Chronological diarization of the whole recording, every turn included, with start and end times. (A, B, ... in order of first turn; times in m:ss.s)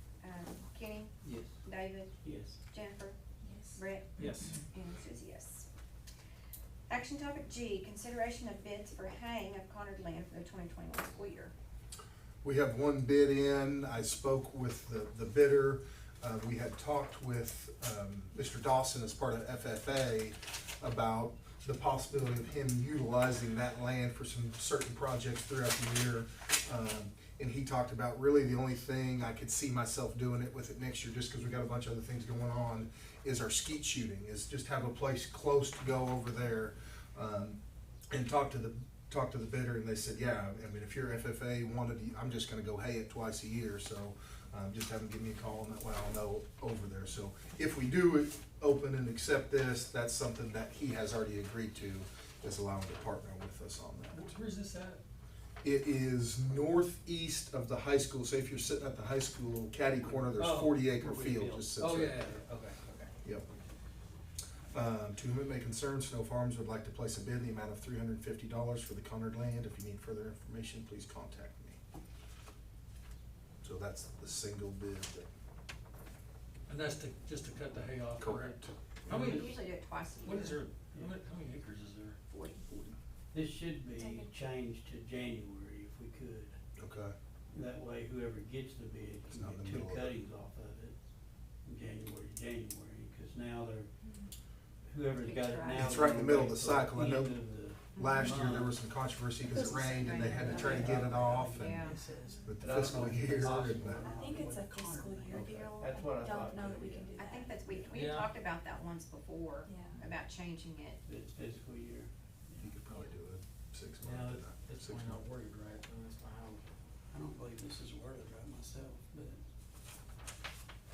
0:00.2-0:02.1 A
0:01.2-0:01.5 B
0:02.2-0:02.6 B
0:02.6-0:03.2 A
0:03.4-0:03.8 C
0:03.7-0:05.7 A
0:04.2-0:04.6 D
0:06.9-0:11.5 A
0:12.4-0:37.6 E
0:38.1-0:54.2 E
0:54.1-0:55.0 D
0:55.6-1:02.3 E
1:00.0-1:02.4 B
1:00.4-1:00.8 D
1:01.8-1:03.1 D
1:04.7-1:11.8 E
1:13.6-1:15.3 E
1:16.7-1:19.6 D
1:18.2-1:19.4 E
1:19.1-1:20.6 A
1:20.2-1:22.2 D
1:22.3-1:22.7 A
1:23.3-1:26.6 B
1:23.9-1:24.3 C
1:26.8-1:27.1 E
1:27.5-1:30.9 B
1:29.3-1:30.2 E
1:31.6-1:33.9 B
1:34.0-1:34.3 C
1:34.8-1:38.8 B
1:35.2-1:36.2 A
1:35.7-1:41.9 E
1:38.0-1:38.4 A
1:39.4-1:43.1 C
1:40.2-1:47.1 B
1:41.5-1:42.0 A
1:42.4-1:44.0 E
1:43.9-1:47.9 C
1:47.2-1:51.0 A
1:47.9-1:48.3 D
1:49.6-1:50.0 C
1:51.0-1:52.7 B
1:52.6-1:55.2 E
1:54.0-1:54.4 B
1:54.7-1:56.6 D
1:57.1-1:59.4 B